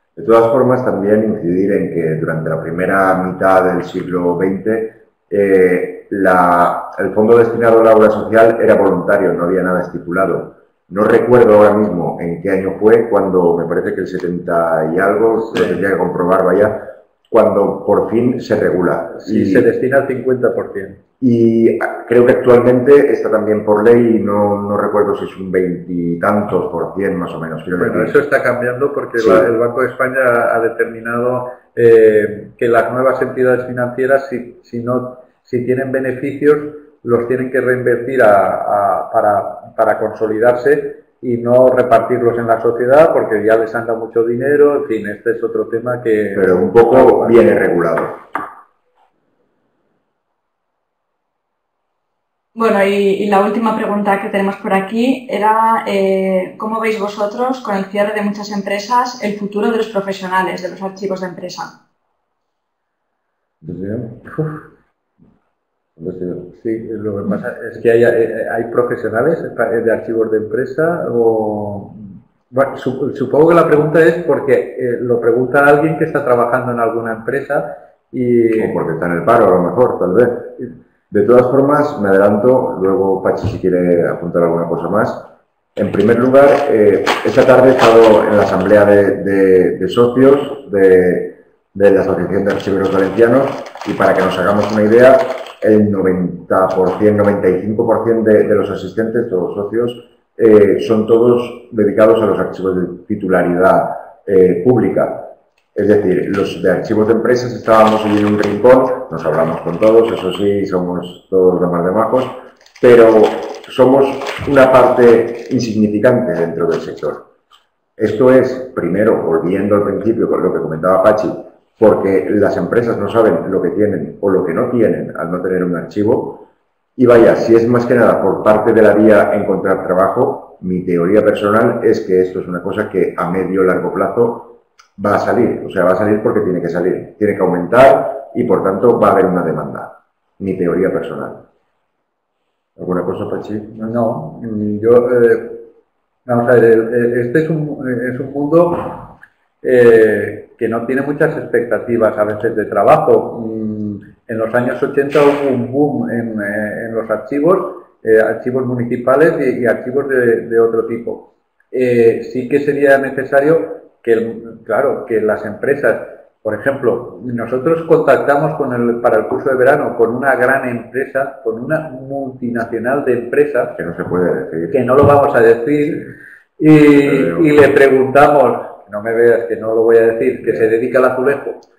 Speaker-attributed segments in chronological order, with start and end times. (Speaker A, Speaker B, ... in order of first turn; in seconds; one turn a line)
Speaker A: 0.2-19.7
Speaker B: 19.2-21.0
Speaker A: 21.2-28.1
Speaker B: 27.8-47.5
Speaker A: 29.2-29.5
Speaker A: 46.4-48.2
Speaker C: 52.5-61.8
Speaker A: 63.6-64.3
Speaker A: 66.0-66.5
Speaker B: 66.5-78.8
Speaker A: 78.6-117.3
Speaker A: 118.0-126.5
Speaker A: 127.0-141.4
Speaker A: 142.8-143.9
Speaker B: 143.8-145.7
Speaker B: 146.3-173.8
Speaker A: 173.8-174.8
Speaker B: 174.7-181.6
Speaker A: 177.0-177.5